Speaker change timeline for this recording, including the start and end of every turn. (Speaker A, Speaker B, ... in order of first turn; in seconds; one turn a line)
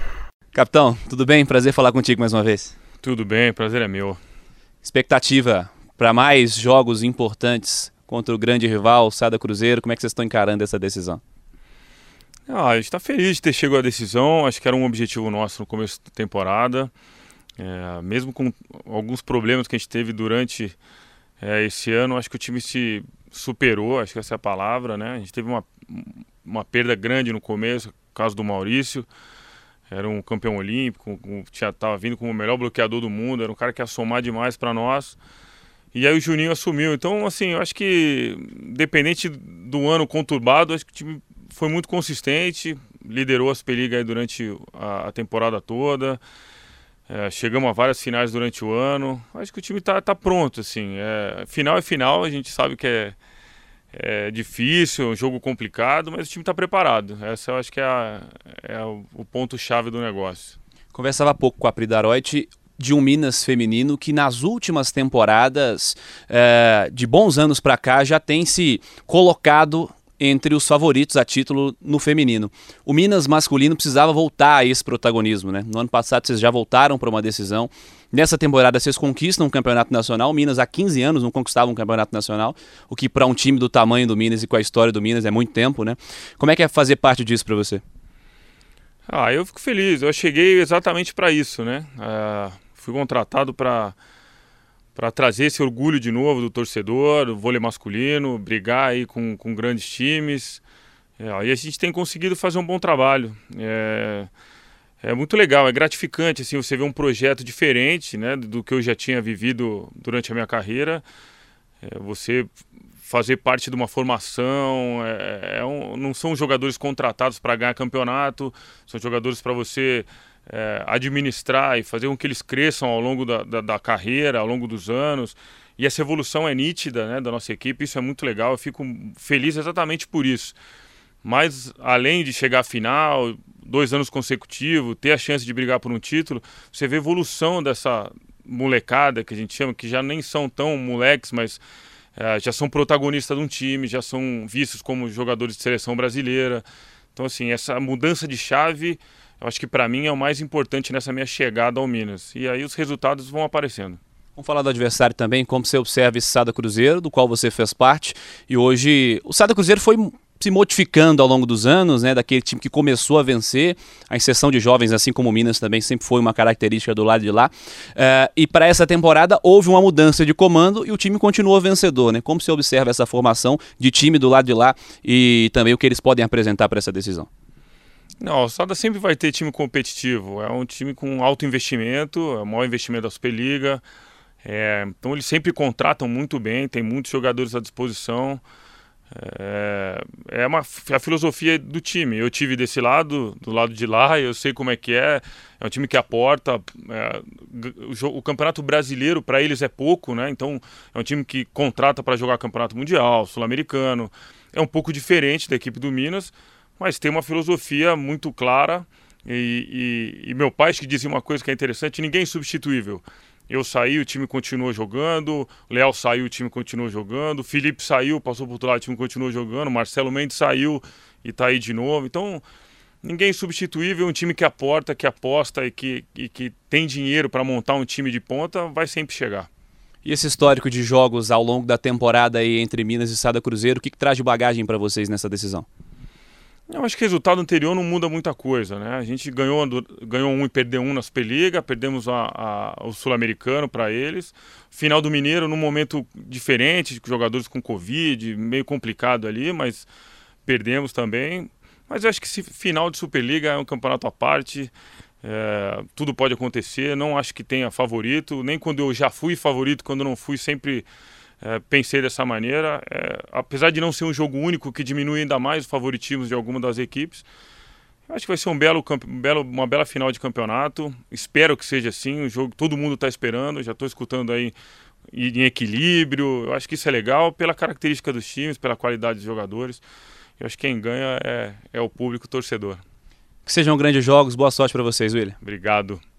Speaker A: 0.5-2.8
Speaker B: 3.0-4.2
Speaker A: 4.8-11.2
Speaker B: 12.5-16.9
Speaker B: 17.6-20.8
Speaker B: 21.4-29.1
Speaker B: 29.9-35.2
Speaker B: 35.9-46.2
Speaker B: 47.1-53.2
Speaker B: 53.9-60.6
Speaker A: 60.9-87.8
Speaker B: 89.1-94.0
Speaker B: 95.0-100.6
Speaker B: 101.2-104.3
Speaker B: 105.0-111.0
Speaker B: 111.8-112.5
Speaker B: 113.1-130.6
Speaker B: 131.2-141.6
Speaker B: 142.2-146.6
Speaker B: 147.2-154.0
Speaker A: 154.4-177.3
Speaker B: 178.2-183.8
Speaker B: 184.4-188.4
Speaker B: 189.1-222.4
Speaker B: 223.0-229.5
Speaker A: 230.1-235.7
Speaker B: 236.7-249.9
Speaker B: 250.5-254.7
Speaker B: 255.2-260.9
Speaker B: 261.4-267.2
Speaker B: 268.1-274.5
Speaker B: 275.1-279.8
Speaker B: 280.4-282.8
Speaker A: 283.5-285.4
Speaker B: 285.4-286.0